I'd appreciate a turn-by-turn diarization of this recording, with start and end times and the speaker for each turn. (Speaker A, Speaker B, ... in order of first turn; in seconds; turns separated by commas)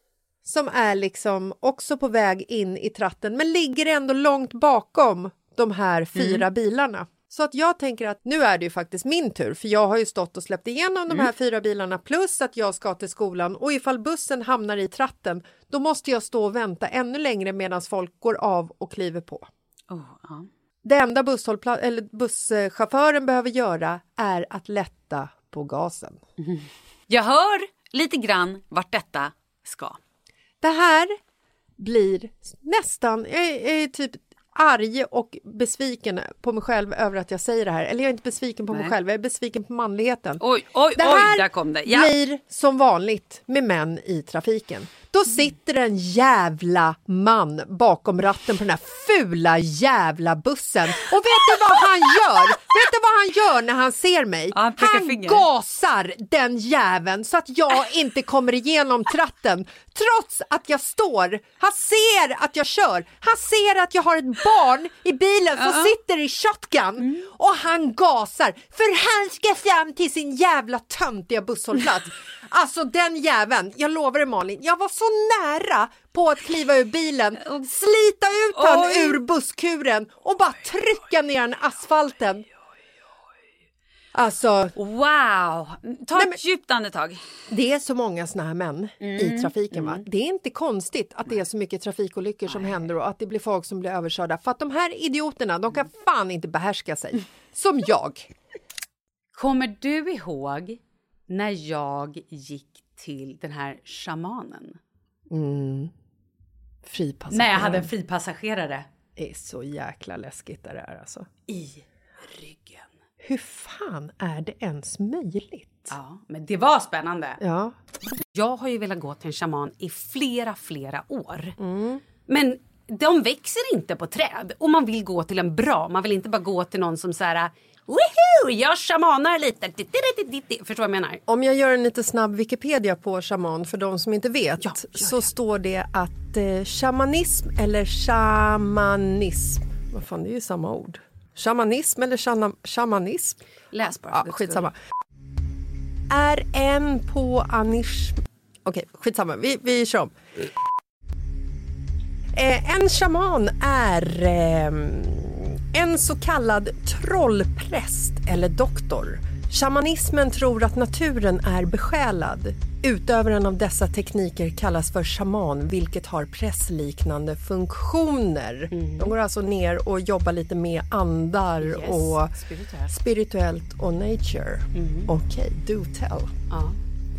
Speaker A: 0.4-19.5, Speaker B: 6.2-6.4, Speaker B: 19.9-20.5, Speaker A: 20.8-26.2, Speaker B: 26.4-30.0, Speaker A: 30.6-31.1, Speaker A: 31.8-40.4, Speaker B: 40.4-42.1, Speaker A: 41.0-82.5, Speaker B: 54.5-55.4, Speaker B: 65.6-65.9, Speaker B: 78.5-79.2, Speaker A: 84.1-84.7, Speaker B: 84.8-87.2, Speaker A: 87.5-98.3, Speaker B: 89.0-90.0, Speaker B: 92.5-92.8, Speaker B: 99.3-104.8, Speaker A: 105.3-105.9, Speaker A: 106.8-107.9, Speaker B: 107.3-108.9, Speaker A: 109.2-111.3, Speaker B: 111.5-112.9, Speaker A: 113.2-115.9, Speaker B: 115.9-117.4, Speaker A: 117.4-117.8, Speaker B: 118.3-121.5, Speaker A: 121.6-122.0, Speaker B: 122.3-131.2, Speaker A: 131.3-143.4, Speaker B: 134.6-135.3, Speaker B: 143.7-144.7, Speaker A: 144.1-144.7, Speaker A: 146.1-150.5, Speaker A: 152.3-172.3, Speaker B: 168.7-169.1, Speaker B: 171.6-172.9, Speaker A: 172.9-176.3, Speaker B: 174.7-175.1, Speaker B: 176.5-176.8